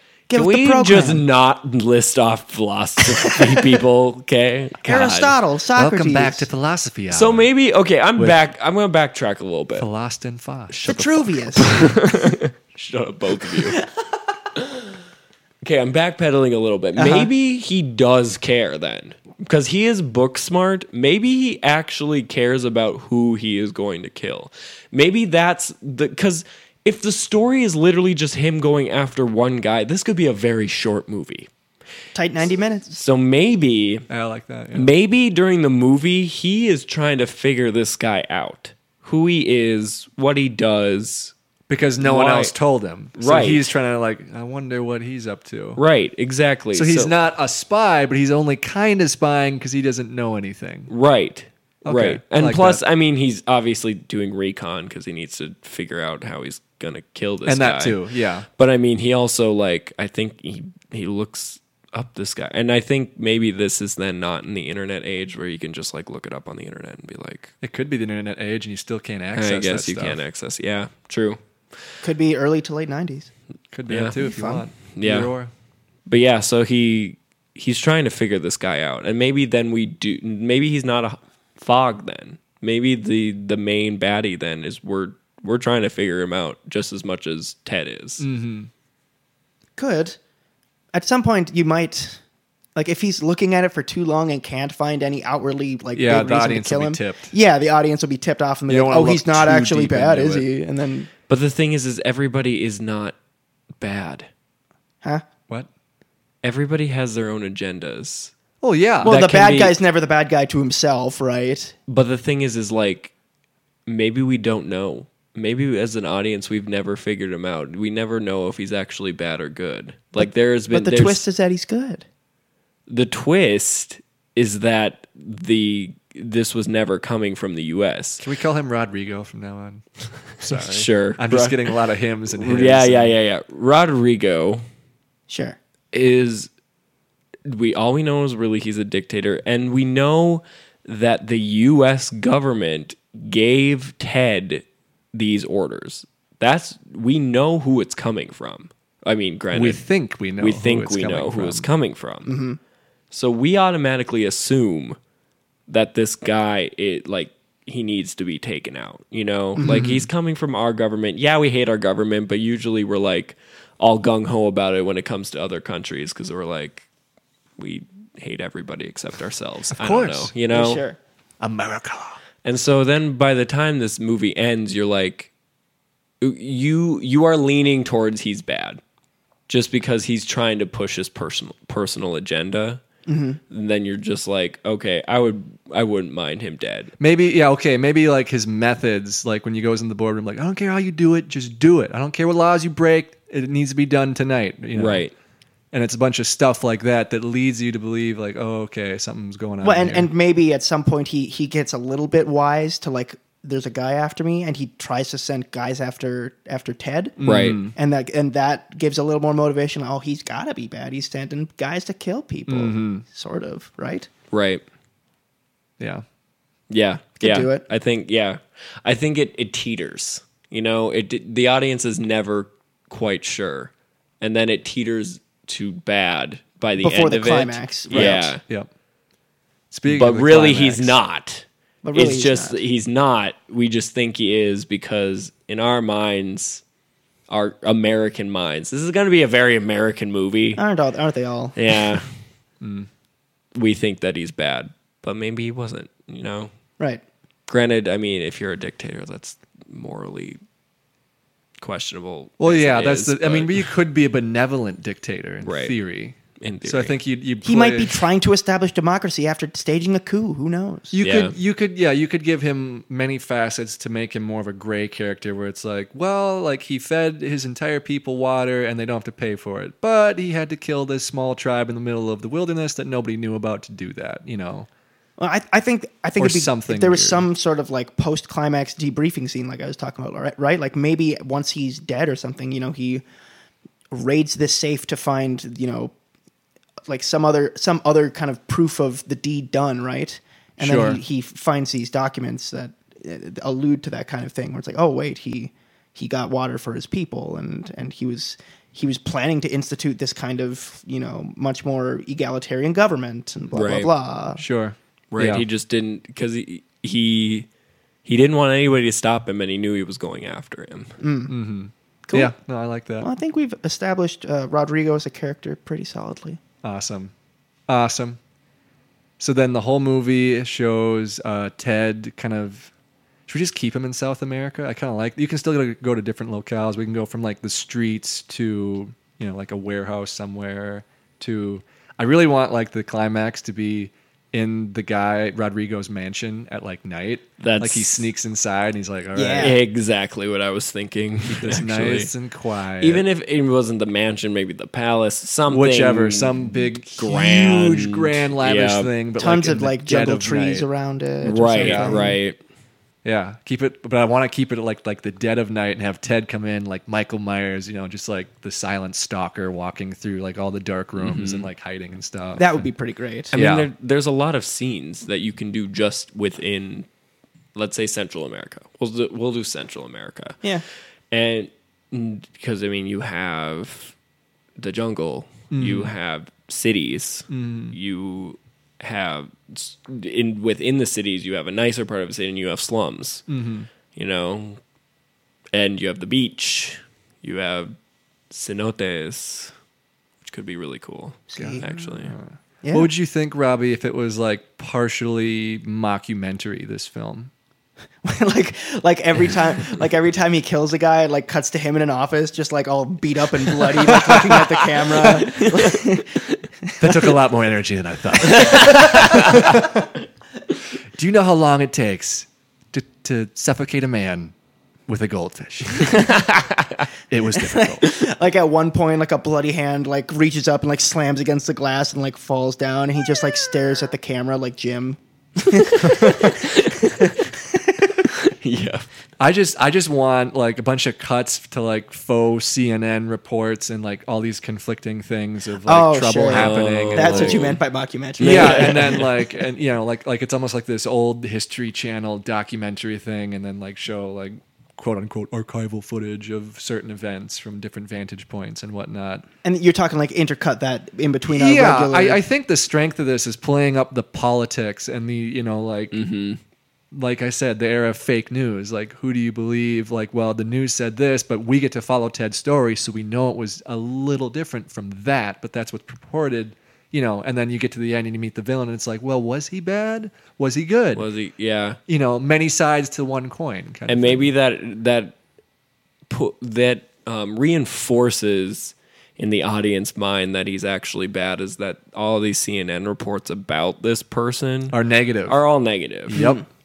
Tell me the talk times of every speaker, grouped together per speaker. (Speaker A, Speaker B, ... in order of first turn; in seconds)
Speaker A: 0.3-1.2, 4.8-6.5, 10.8-11.9, 13.6-13.8, 17.0-17.3, 32.1-32.9, 72.0-73.3, 74.2-74.7, 89.8-90.2, 90.9-92.2, 92.8-101.1, 109.0-111.8, 120.2-122.0, 135.3-135.6, 152.3-152.6, 159.6-159.9, 170.5-171.0, 183.1-183.4, 199.6-214.1, 217.2-217.6, 226.8-228.4, 231.8-232.6, 240.6-242.0, 257.4-261.0, 275.2-283.0, 283.9-285.9, 286.9-304.4, 311.0-311.4, 312.1-312.3, 313.0-316.4, 339.1-339.6, 349.2-352.2, 362.4-363.3, 391.3-391.7, 392.6-392.9, 398.0-407.1, 417.4-428.0, 435.7-439.2, 449.4-452.2, 486.1-486.4
Speaker B: 0.3-5.4, 7.1-9.9, 10.7-13.8, 14.5-15.0, 15.6-31.5, 32.9-34.1, 34.7-41.3, 42.0-42.5, 43.2-43.7, 45.8-47.1, 50.9-67.5, 69.3-71.4, 73.9-74.2, 74.9-75.3, 76.1-88.3, 101.3-103.2, 103.8-104.3, 106.4-108.3, 109.0-109.8, 111.9-113.1, 113.9-121.2, 122.9-128.2, 130.5-131.8, 132.3-134.6, 135.9-136.5, 137.5-149.8, 150.4-152.4, 153.1-155.0, 155.7-166.9, 167.6-170.8, 172.4-175.3, 176.2-178.8, 179.5-182.8, 183.5-186.9, 194.7-195.1, 207.2-207.6, 214.3-214.6, 216.7-228.4, 229.9-236.6, 237.3-240.6, 241.6-242.1, 243.6-246.5, 247.5-250.4, 251.6-253.7, 255.4-255.8, 256.4-256.9, 261.0-261.4, 303.5-303.9, 305.1-307.5, 308.1-310.9, 337.4-338.1, 339.4-342.1, 342.8-348.9, 351.2-352.4, 361.0-361.5, 363.3-366.9, 367.6-370.4, 371.1-373.9, 374.6-383.3, 383.9-384.6, 385.5-387.8, 388.3-389.5, 390.2-392.1, 405.4-405.8, 408.2-409.7, 415.9-416.9, 425.6-427.1, 428.1-428.9, 436.3-437.6, 438.2-439.1, 455.9-456.4, 470.9-471.8, 473.9-475.2, 476.1-486.3
Speaker C: 5.8-7.5, 8.2-8.4, 9.8-11.1, 34.1-34.9, 41.7-45.8, 46.7-50.9, 51.9-52.8, 57.5-58.5, 67.6-70.2, 73.7-75.5, 88.2-88.7, 96.0-97.3, 98.7-100.5, 108.6-109.2, 128.2-133.2, 149.5-151.7, 159.7-160.0, 169.7-170.3, 171.4-172.2, 187.0-195.1, 195.7-200.1, 207.2-207.8, 212.5-213.0, 227.9-228.7, 229.7-231.0, 242.6-242.9, 252.4-258.0, 260.9-274.7, 276.2-277.2, 290.6-291.0, 304.4-305.4, 311.3-313.1, 316.6-317.1, 317.7-318.2, 319.2-322.7, 323.3-339.6, 341.3-343.1, 345.5-350.7, 351.6-352.0, 353.0-362.7, 363.3-363.7, 375.5-375.9, 377.3-377.8, 383.3-383.7, 391.4-397.3, 403.9-405.3, 406.8-409.9, 410.9-414.3, 414.9-416.1, 417.1-417.9, 429.2-437.6, 438.2-449.3, 451.3-456.0, 456.9-471.1, 471.9-474.3, 484.7-485.4, 486.1-486.4